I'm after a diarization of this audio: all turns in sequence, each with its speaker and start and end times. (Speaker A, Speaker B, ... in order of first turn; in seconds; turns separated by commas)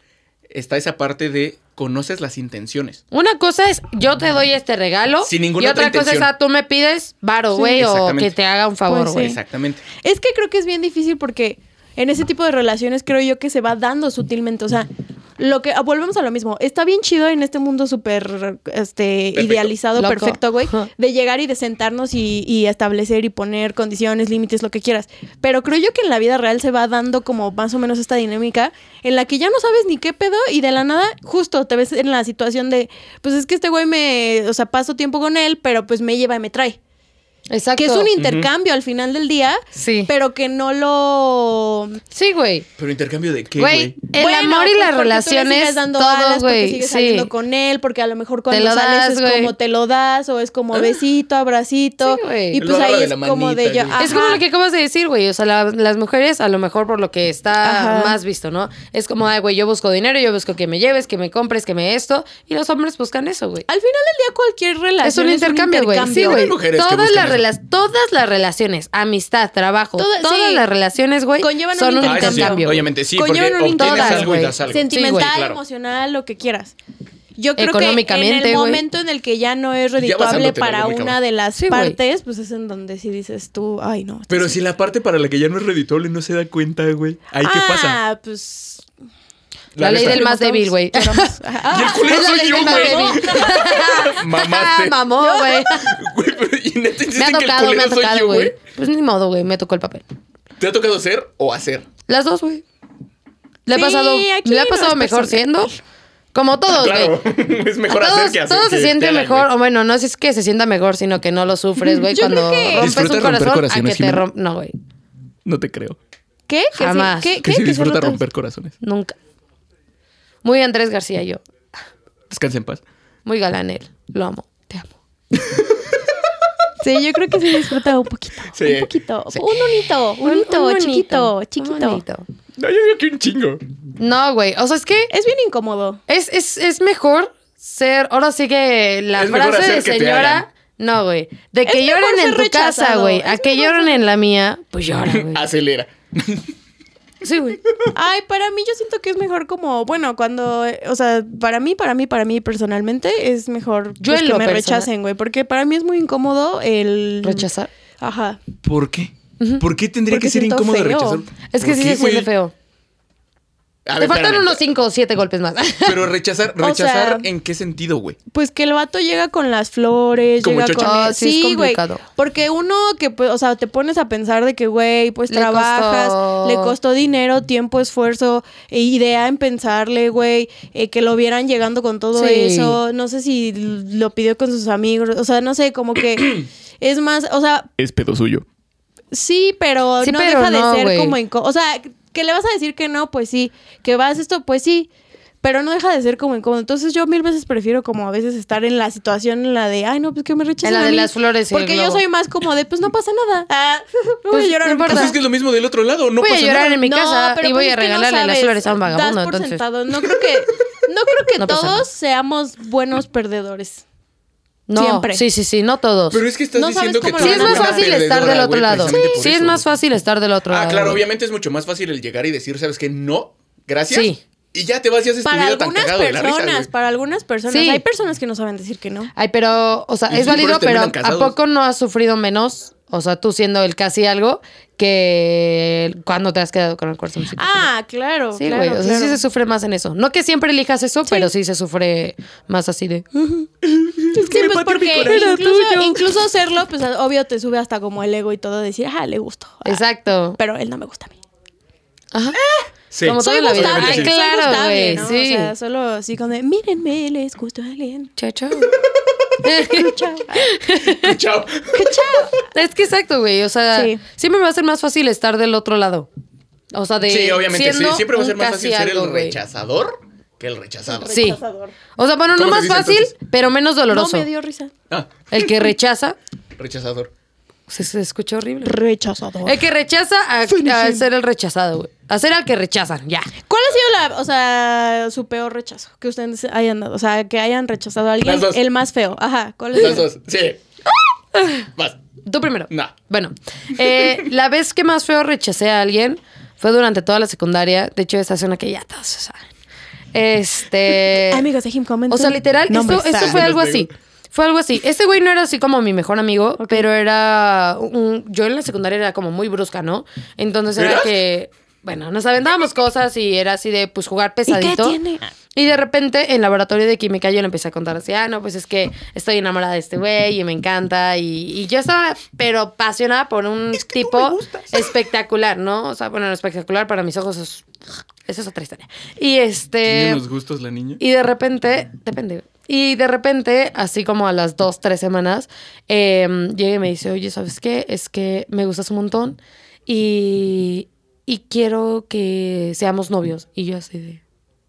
Speaker A: 0.5-3.0, Speaker B: 3.1-9.4, Speaker A: 5.2-6.3, Speaker C: 7.5-7.8, Speaker A: 7.7-8.3, Speaker C: 8.9-9.4, Speaker A: 9.2-9.8, Speaker C: 10.0-36.8, Speaker A: 19.3-19.7, Speaker B: 20.0-20.9, Speaker B: 37.5-38.1, Speaker C: 37.8-42.0, Speaker A: 38.2-38.5, Speaker B: 39.7-40.1, Speaker B: 42.1-42.7, Speaker A: 42.8-44.0, Speaker B: 43.6-47.3, Speaker C: 44.1-54.4, Speaker B: 48.5-49.5, Speaker B: 52.0-52.6, Speaker A: 52.6-54.4, Speaker B: 54.0-63.7, Speaker C: 57.6-58.2, Speaker C: 63.7-66.5, Speaker B: 65.0-72.8, Speaker A: 66.1-67.5, Speaker C: 70.0-70.6, Speaker C: 71.4-76.7, Speaker A: 72.0-75.6, Speaker B: 73.8-75.3, Speaker C: 77.4-84.6, Speaker B: 77.6-78.8, Speaker A: 80.0-81.2, Speaker B: 81.6-82.0, Speaker A: 84.3-88.0, Speaker C: 87.4-88.9, Speaker A: 89.7-90.3, Speaker B: 89.8-91.3, Speaker C: 89.9-94.1, Speaker A: 91.7-95.0, Speaker B: 91.8-96.0, Speaker C: 95.2-95.6, Speaker A: 95.6-98.5, Speaker B: 97.1-100.0, Speaker A: 100.6-101.9, Speaker B: 102.1-102.6, Speaker B: 103.7-105.7, Speaker C: 103.7-105.8, Speaker B: 106.3-107.2, Speaker A: 106.7-109.5, Speaker B: 107.9-114.7, Speaker C: 111.9-112.9, Speaker A: 112.7-114.2, Speaker A: 115.5-116.0, Speaker C: 116.5-118.2, Speaker B: 116.8-117.4, Speaker A: 117.4-118.8, Speaker B: 118.8-119.1, Speaker B: 120.4-121.4, Speaker A: 122.3-122.8, Speaker B: 123.2-124.9, Speaker A: 125.3-126.1, Speaker C: 126.8-132.0, Speaker A: 128.5-129.6, Speaker B: 130.2-132.3, Speaker A: 132.6-133.6, Speaker B: 134.0-135.1, Speaker C: 135.1-136.0, Speaker B: 136.1-145.4, Speaker A: 139.1-140.4, Speaker C: 141.7-144.0, Speaker A: 145.1-146.5, Speaker B: 147.2-147.6, Speaker C: 147.9-157.5, Speaker B: 154.0-154.9, Speaker B: 157.2-157.7, Speaker C: 158.0-158.4, Speaker A: 158.6-162.3, Speaker C: 160.1-161.2, Speaker B: 161.5-162.5, Speaker A: 163.9-164.6, Speaker B: 164.0-166.0, Speaker A: 165.8-168.2, Speaker C: 166.6-167.3, Speaker C: 168.3-187.7, Speaker A: 170.4-170.9, Speaker B: 170.8-172.0, Speaker B: 175.3-176.7, Speaker B: 182.1-182.8, Speaker A: 187.8-188.4, Speaker C: 189.1-194.9, Speaker B: 190.0-191.2, Speaker C: 195.4-205.2, Speaker B: 200.6-202.0, Speaker B: 204.3-205.1, Speaker A: 204.9-206.8, Speaker B: 206.2-209.6, Speaker C: 206.6-213.8, Speaker B: 211.4-211.8, Speaker B: 214.7-216.2, Speaker C: 214.7-215.2, Speaker A: 216.1-219.6, Speaker C: 216.6-218.1, Speaker B: 217.2-221.0, Speaker C: 218.8-219.2, Speaker A: 220.5-226.7, Speaker B: 223.9-224.2, Speaker C: 225.2-229.1, Speaker B: 227.5-227.8, Speaker B: 229.1-237.7, Speaker A: 230.1-231.4, Speaker C: 237.4-239.2, Speaker B: 238.4-243.5, Speaker A: 243.6-245.4, Speaker C: 244.1-249.8, Speaker B: 245.1-246.0, Speaker B: 249.6-250.4, Speaker C: 250.4-251.1, Speaker B: 252.1-252.4, Speaker A: 252.6-254.1, Speaker B: 253.0-255.5, Speaker C: 253.2-258.1, Speaker B: 258.2-258.8, Speaker A: 258.6-258.9, Speaker B: 259.4-261.2, Speaker C: 259.6-260.6, Speaker A: 260.9-262.3, Speaker C: 261.7-262.5, Speaker B: 262.5-266.1, Speaker C: 263.7-264.0, Speaker B: 266.7-269.4, Speaker A: 267.0-271.2, Speaker C: 270.9-271.7, Speaker B: 271.1-271.4, Speaker B: 271.9-274.3, Speaker A: 272.3-273.1, Speaker C: 273.9-274.7, Speaker A: 274.9-275.6, Speaker B: 275.3-276.2, Speaker A: 276.6-277.1, Speaker B: 277.7-278.8, Speaker C: 278.6-279.6, Speaker B: 279.4-283.3, Speaker C: 280.5-281.0, Speaker C: 283.5-290.0, Speaker A: 288.2-288.6, Speaker A: 289.7-290.6, Speaker B: 291.3-291.7, Speaker B: 292.2-299.4, Speaker A: 293.8-294.3, Speaker B: 300.1-301.4, Speaker C: 301.3-303.4, Speaker B: 302.1-315.0, Speaker A: 303.1-303.9, Speaker A: 310.8-311.1, Speaker C: 314.5-315.3, Speaker B: 315.6-327.6, Speaker A: 323.7-324.9, Speaker B: 328.3-330.2, Speaker A: 329.8-331.0, Speaker B: 331.0-344.2